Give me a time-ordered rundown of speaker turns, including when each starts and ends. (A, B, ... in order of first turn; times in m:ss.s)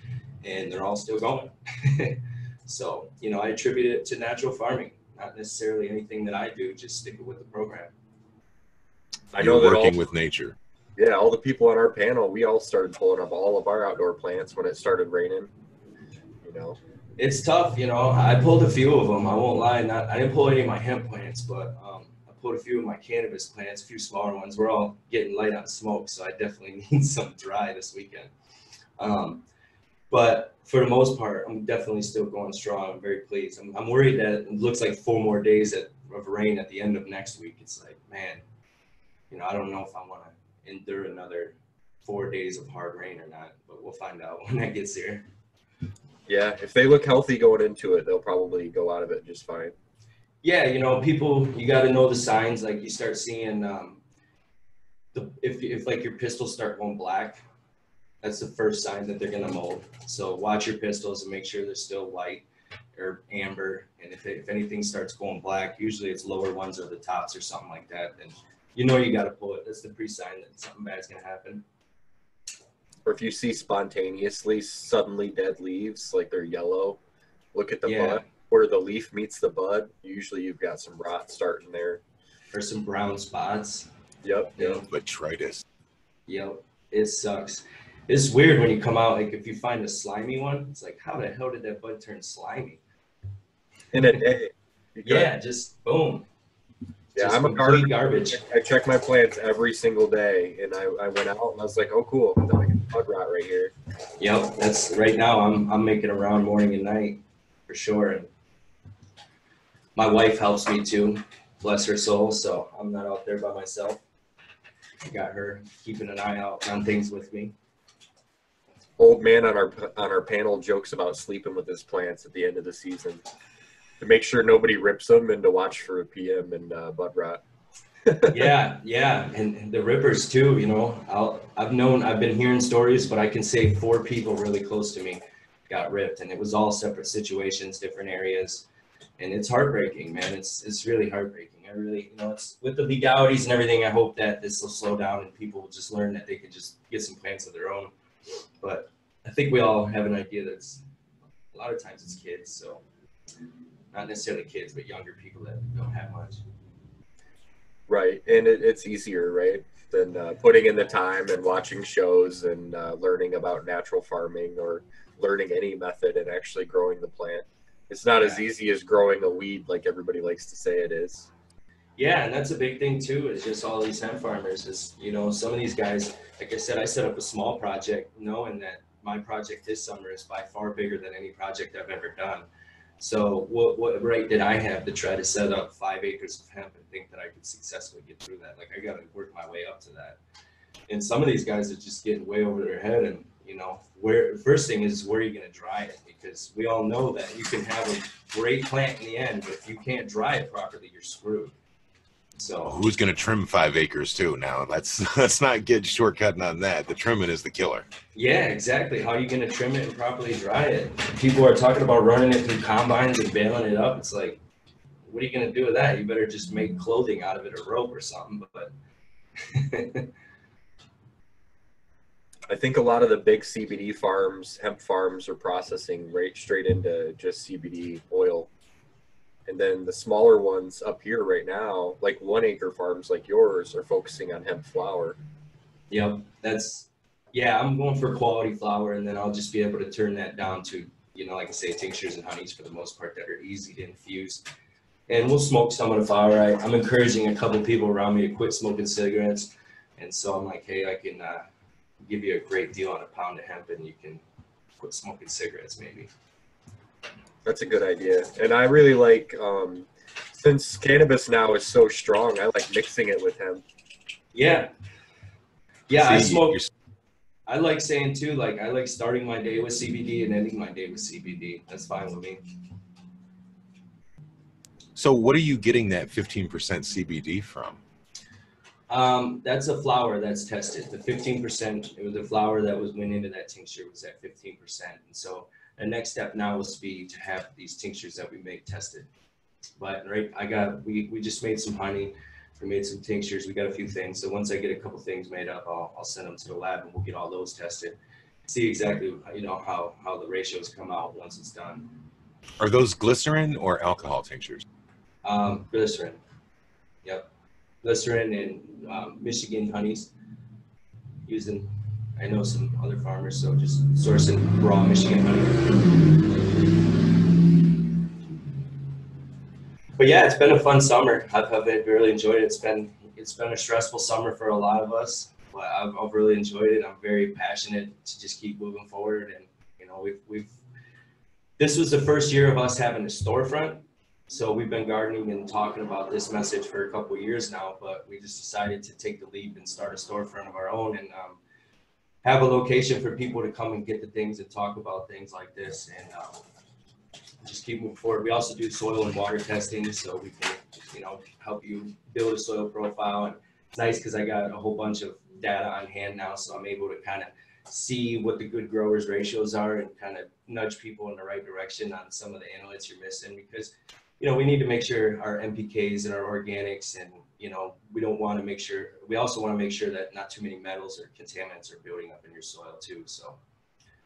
0:00.4-0:07.9 A
0:09.3-0:10.6 B
0:09.4-0:09.9 C
0:11.0-0:15.5 C
0:16.4-0:16.8 C
0:17.2-0:28.3 A
0:29.0-0:29.4 A
0:30.1-0:38.4 A
0:39.3-0:45.3 A
0:46.3-0:49.7 C
0:50.4-0:54.0 A
0:55.1-0:57.4 A
0:58.2-1:11.6 A
1:13.0-1:17.0 C
1:17.5-1:22.0 C
1:17.8-1:18.2 A
1:22.5-1:23.9 A
1:24.2-1:24.8 C
1:24.6-1:24.9 A
1:24.9-1:25.6 B
1:26.3-1:32.8 A
1:33.9-1:35.3 C
1:35.0-1:36.3 A
1:37.2-1:43.7 C
1:37.2-1:38.4 A
1:44.2-1:48.3 A
1:50.0-1:54.0 A
1:55.0-1:57.5 A
1:59.0-2:03.2 C
2:04.0-2:07.4 C
2:08.1-2:08.4 C
2:08.2-2:18.7 A
2:19.2-2:27.9 A
2:28.6-2:30.8 A
2:31.5-2:32.8 A
2:33.9-2:36.4 A
2:37.9-2:51.3 C
2:48.2-2:48.4 A
2:52.0-3:02.5 A
3:03.0-3:10.2 A
3:10.9-3:21.5 A
3:22.4-3:22.7 A
3:22.7-3:27.9 B
3:28.2-3:34.4 A
3:35.1-3:38.7 A
3:39.4-3:40.1 A
3:42.5-3:48.5 C
3:49.5-3:55.2 C
3:55.9-4:04.4 A
4:05.1-4:11.5 A
4:12.0-4:14.2 A
4:14.8-4:16.1 A
4:17.4-4:23.6 C
4:24.3-4:24.7 A
4:25.9-4:26.6 A
4:25.9-4:26.7 B
4:27.5-4:32.4 A
4:35.0-4:37.8 B
4:38.9-4:49.1 A
4:49.8-4:58.0 A
4:58.5-5:01.9 A
5:02.6-5:04.6 B
5:05.2-5:06.2 A
5:07.8-5:10.1 A
5:11.3-5:15.8 A
5:20.0-5:30.6 A
5:31.6-5:41.4 A
5:42.2-5:46.4 A
5:47.4-6:13.4 A